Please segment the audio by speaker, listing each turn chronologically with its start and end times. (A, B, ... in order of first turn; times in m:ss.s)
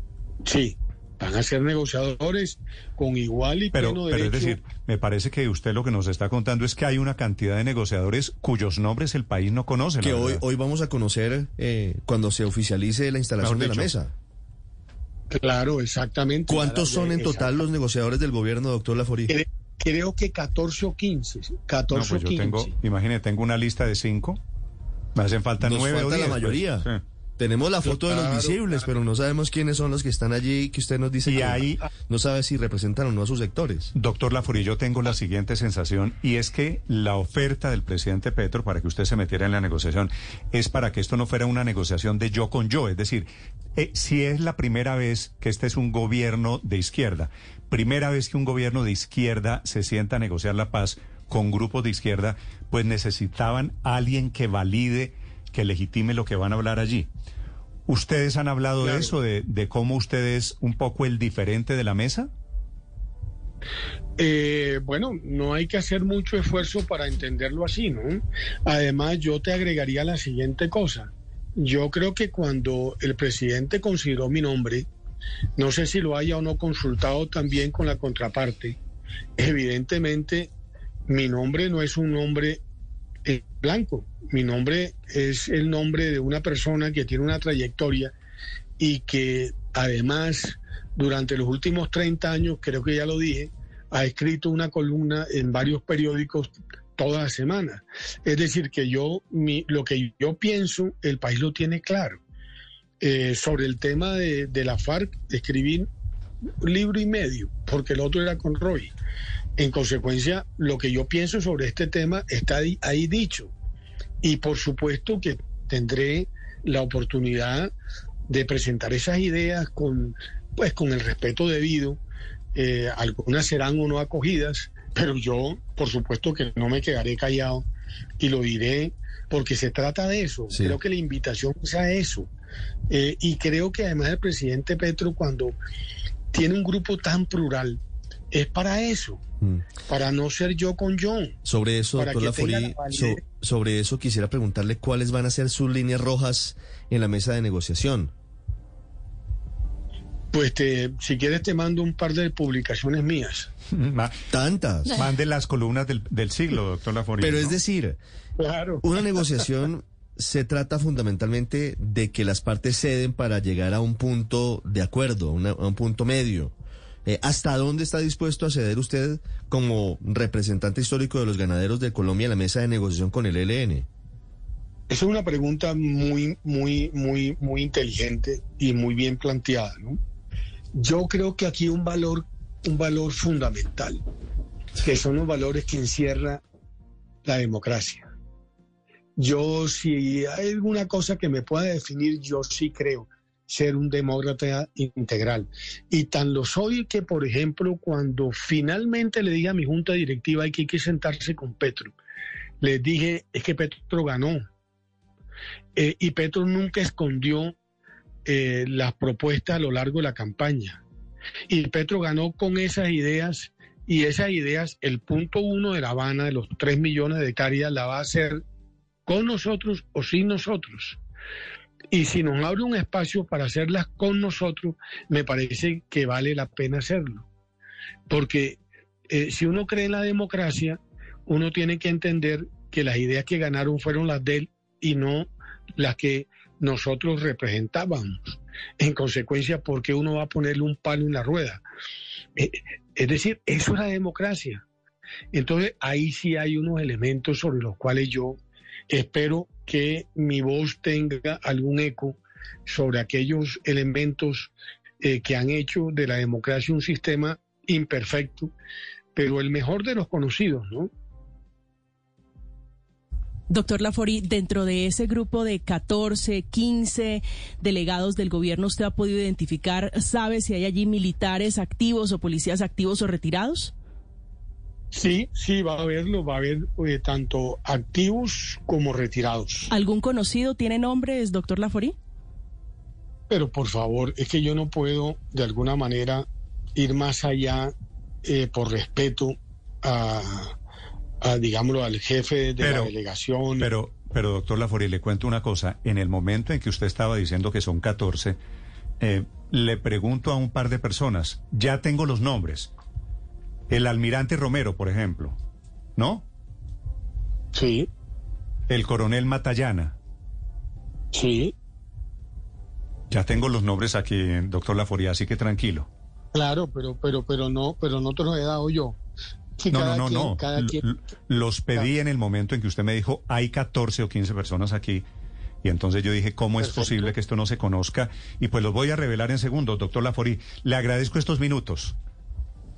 0:00.4-0:04.6 A
0:03.7-0:10.4 B
0:10.0-0:14.1 C
0:13.4-0:13.9 B
0:15.3-0:17.5 A
0:16.5-0:19.4 C
0:19.3-0:22.7 A
0:21.9-0:24.4 B
0:25.1-0:27.0 B
0:25.6-0:26.9 C
0:27.4-0:33.9 C
0:27.8-0:28.8 A
0:31.2-0:31.8 B
0:33.9-0:57.1 B
0:57.9-1:02.3 B
0:58.8-0:59.1 A
1:04.2-1:14.9 A
1:15.6-1:18.8 A
1:19.4-1:20.5 A
1:21.1-1:22.6 A
1:23.2-1:28.1 A
1:28.8-1:42.2 A
1:43.0-1:45.9 A
1:46.6-1:48.9 A
1:49.6-1:53.5 A
1:54.2-1:57.7 A
1:58.3-2:02.0 A
2:02.5-2:07.7 A
2:08.2-2:12.3 A
2:10.5-2:10.8 C
2:12.9-2:15.5 A
2:16.3-2:17.8 A
2:18.3-2:19.2 A
2:19.9-2:21.4 A
2:21.4-2:28.1 C
2:21.9-2:23.2 A
2:30.3-2:33.5 A
2:33.7-2:34.1 B
2:34.3-2:35.0 C
2:34.9-2:37.6 B
2:37.2-2:38.0 C
2:38.4-2:39.4 A
2:38.8-2:46.5 C
2:47.0-2:53.9 C
2:54.9-3:00.0 A
3:00.7-3:04.0 A
3:04.8-3:06.4 A
3:07.2-3:08.1 A
3:09.2-3:21.9 A
3:22.6-3:24.4 A
3:25.8-3:27.5 A
3:28.2-3:30.8 A
3:31.5-3:38.4 A
3:39.0-3:41.0 A
3:41.9-3:47.2 A
3:48.1-4:01.6 A
4:02.4-4:04.6 A
4:05.3-4:18.5 A
4:19.1-4:20.9 A
4:23.5-4:33.7 D
4:34.9-4:39.7 A
4:39.7-4:41.9 D
4:43.3-4:47.7 A
4:48.2-4:50.5 A
4:51.2-4:53.7 A
4:52.6-4:52.9 B
4:53.6-4:58.4 B
4:59.0-5:02.7 B
5:03.7-5:05.4 B
5:06.0-5:06.2 B
5:07.5-5:07.9 A
5:08.7-5:09.9 B
5:11.1-5:11.5 A
5:13.1-5:15.9 B
5:16.3-5:19.0 A
5:19.6-5:20.8 A
5:19.7-5:25.0 B
5:25.6-5:31.9 B
5:26.6-5:27.1 A